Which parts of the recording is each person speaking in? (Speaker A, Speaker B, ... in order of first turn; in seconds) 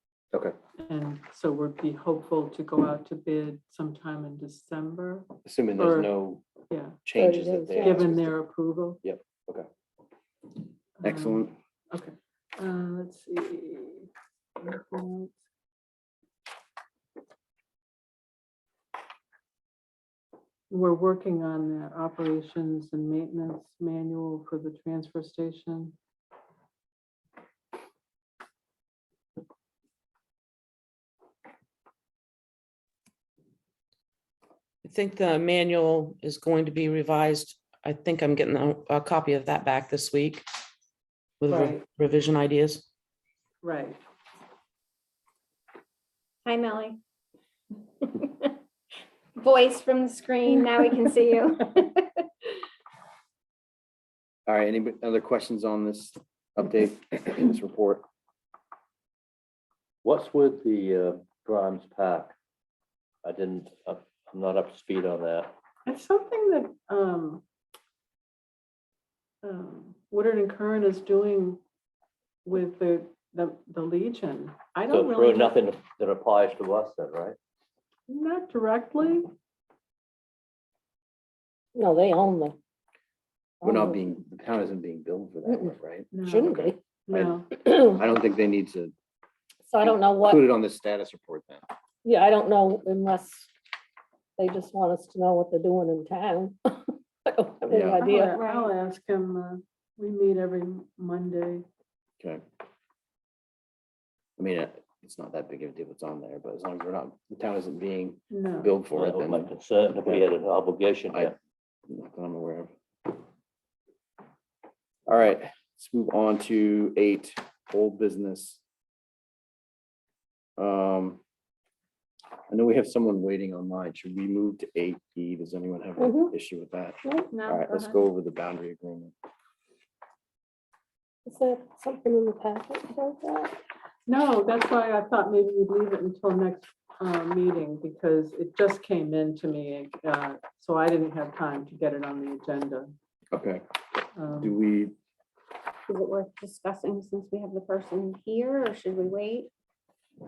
Speaker A: 0.8-6.1, 6.7-7.0, 7.8-9.0, 11.0-15.4, 20.7-25.9, 41.5-41.8, 43.6-44.0, 65.9-67.4, 69.4-71.6, 72.5-75.6, 78.1-79.3, 86.1-87.5, 98.0-101.7, 108.3-108.7, 134.1-142.9, 144.2-144.6
Speaker B: 5.5-6.4, 7.0-8.3, 9.0-9.7, 11.0-11.5, 54.5-58.0, 83.6-86.1, 87.1-88.9, 89.8-91.7, 97.7-98.0, 104.4-110.3, 111.9-113.2, 115.1-118.6, 120.6-121.2, 122.5-129.1, 143.3-143.6, 144.4-144.9
Speaker C: 7.2-8.1, 81.8-82.6, 83.6-84.0, 85.5-86.8, 87.6-88.0, 89.7-90.5, 92.0-93.5, 94.4-98.5, 126.0-126.3, 131.3-133.6
Speaker D: 34.8-40.4, 41.4-42.8
Speaker E: 46.5-47.0, 48.0-48.5, 49.4-52.1, 98.0-98.7, 127.0-128.0, 145.9-149.5
Speaker F: 60.0-62.3, 63.2-65.5, 74.9-77.4, 108.9-111.3